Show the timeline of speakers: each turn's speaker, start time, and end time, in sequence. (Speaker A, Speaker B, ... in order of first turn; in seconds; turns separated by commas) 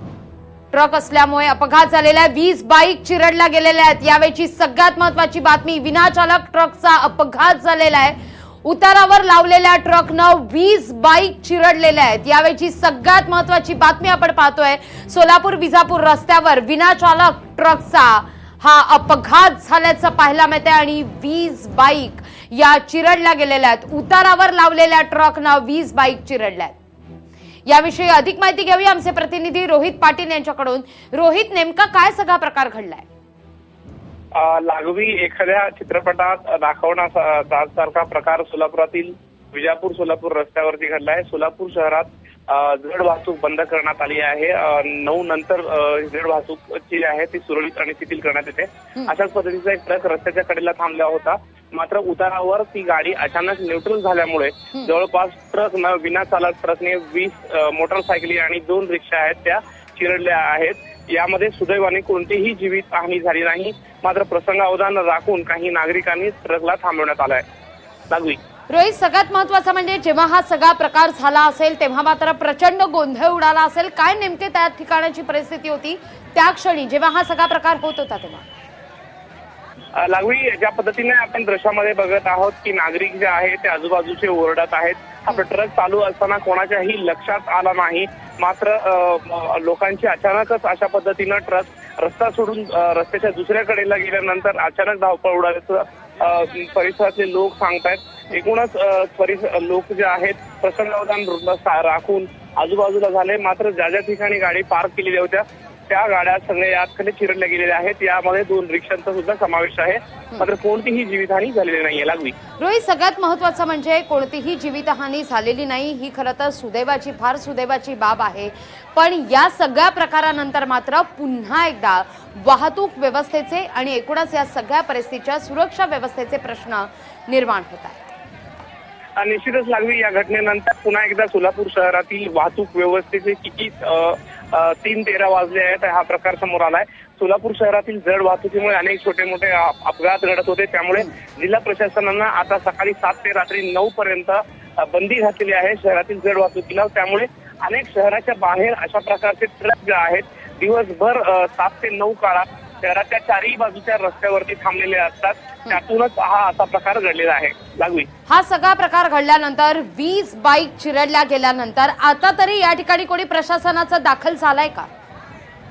Speaker A: 0.7-26.8, Speaker A: 27.6-33.0, Speaker B: 34.3-67.4, Speaker B: 68.1-68.4, Speaker A: 68.7-78.4, Speaker B: 80.0-112.4, Speaker A: 112.6-128.1, Speaker B: 129.2-158.1, Speaker A: 158.3-164.9